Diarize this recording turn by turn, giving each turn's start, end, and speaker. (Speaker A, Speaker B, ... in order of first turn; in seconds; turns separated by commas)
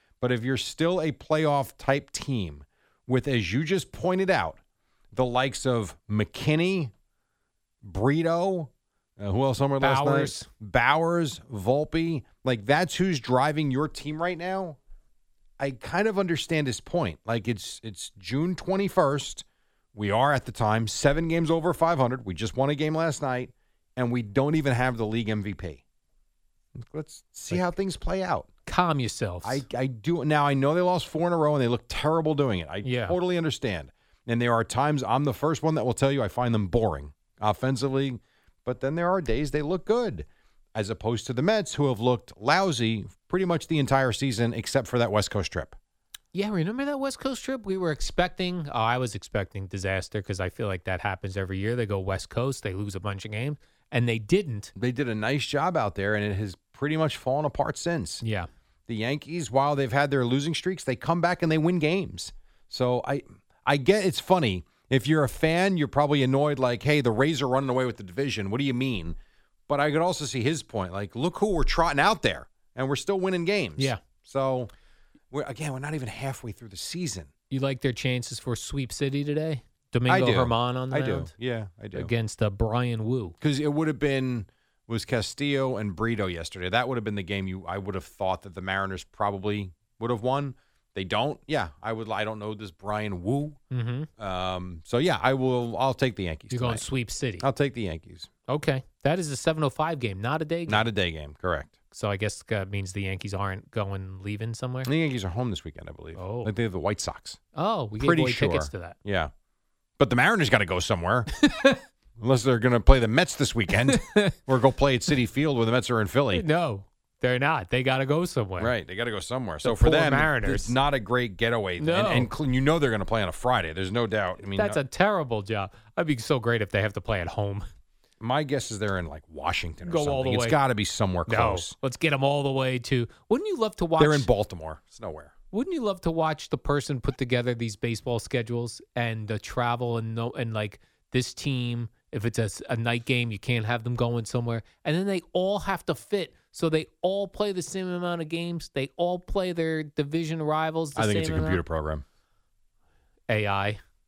Speaker A: 0.2-4.6, Speaker A: 5.1-6.9, Speaker A: 7.8-14.8, Speaker B: 9.8-10.5, Speaker A: 15.6-19.4, Speaker A: 19.9-25.8, Speaker A: 26.8-28.5, Speaker B: 28.6-29.6, Speaker A: 29.4-45.7, Speaker B: 32.8-33.2, Speaker B: 46.3-54.7, Speaker A: 54.8-58.2, Speaker B: 58.2-58.5, Speaker A: 58.9-69.2, Speaker A: 69.7-74.7, Speaker A: 75.3-77.3, Speaker B: 77.5-81.3, Speaker A: 80.1-82.1, Speaker B: 81.9-83.3, Speaker A: 83.4-93.6, Speaker B: 93.7-94.1, Speaker A: 94.2-96.9, Speaker B: 96.5-97.5, Speaker A: 97.4-98.3, Speaker B: 98.5-100.9, Speaker A: 100.7-101.7, Speaker B: 101.9-104.9, Speaker A: 104.8-107.4, Speaker B: 106.1-106.5, Speaker B: 107.5-109.0, Speaker A: 108.0-109.3, Speaker A: 110.0-111.3, Speaker B: 111.4-111.8, Speaker A: 112.2-116.4, Speaker B: 113.8-114.3, Speaker B: 116.3-118.7, Speaker A: 118.6-124.8, Speaker B: 119.6-120.8, Speaker B: 121.8-122.3, Speaker B: 124.5-127.7, Speaker A: 128.2-131.7, Speaker B: 129.8-130.6, Speaker B: 131.3-134.3, Speaker A: 134.0-135.3, Speaker B: 135.5-151.6, Speaker A: 150.9-152.0, Speaker B: 153.3-153.8